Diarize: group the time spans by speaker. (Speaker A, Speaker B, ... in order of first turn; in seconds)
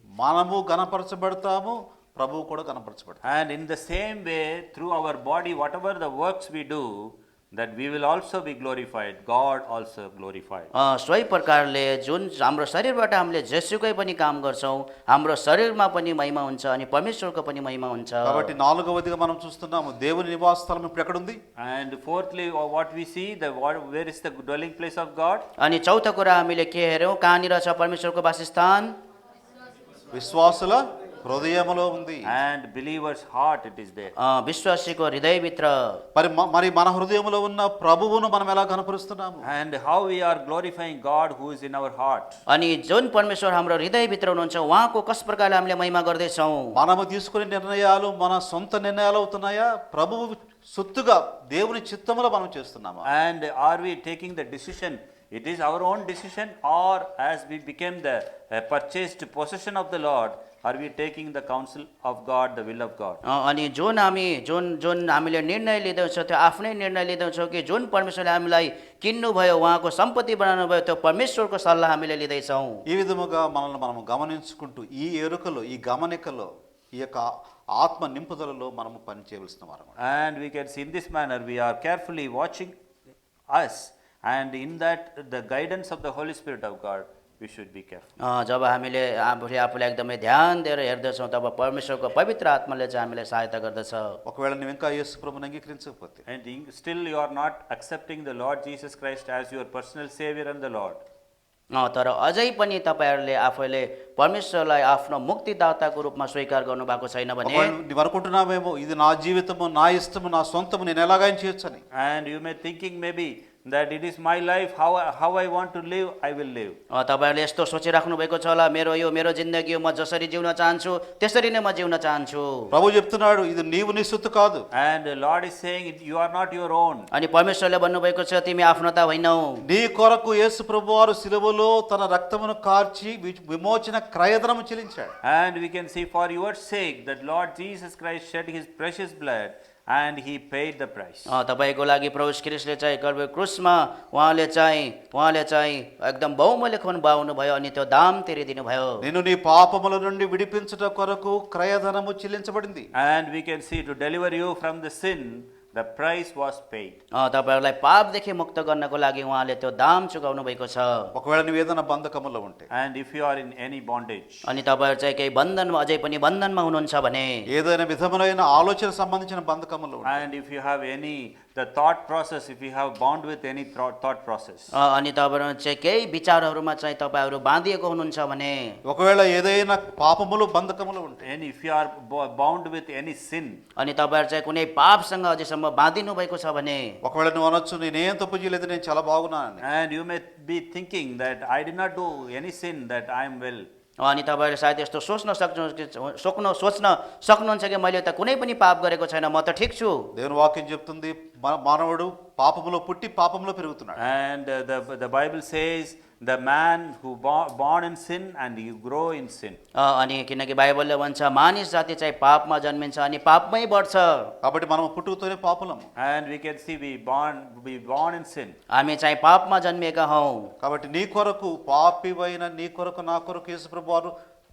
Speaker A: 0.2-3.2, 18.2-21.4, 30.1-32.3, 36.1-39.5, 46.7-53.1, 72.9-80.0, 94.2-96.2, 107.4-111.8, 122.7-124.7, 129.6-135.1, 149.0-152.9, 161.1-162.7, 167.5-170.2, 178.8-181.3, 187.0-189.7, 200.1-204.0, 214.4-215.9, 220.6-224.1
Speaker B: 3.2-10.7, 21.6-25.5, 32.3-34.1, 39.4-42.4, 53.1-63.2, 80.0-82.8, 83.5-88.1, 96.3-101.0, 111.9-116.8, 124.7-127.1, 135.2-141.3, 153.0-157.0, 162.7-164.4, 170.1-174.7, 181.2-183.6, 189.6-193.7, 204.0-209.6, 216.0-218.6
Speaker C: 10.7-18.5, 25.6-28.9, 34.2-36.0, 42.5-46.8, 63.2-72.8, 88.2-94.2, 101.7-107.8, 116.9-122.7, 127.1-129.6, 141.3-149.1, 157.2-161.1, 164.5-167.5, 174.7-178.8, 183.8-187.0, 194.0-200.1, 209.8-214.3, 218.7-220.5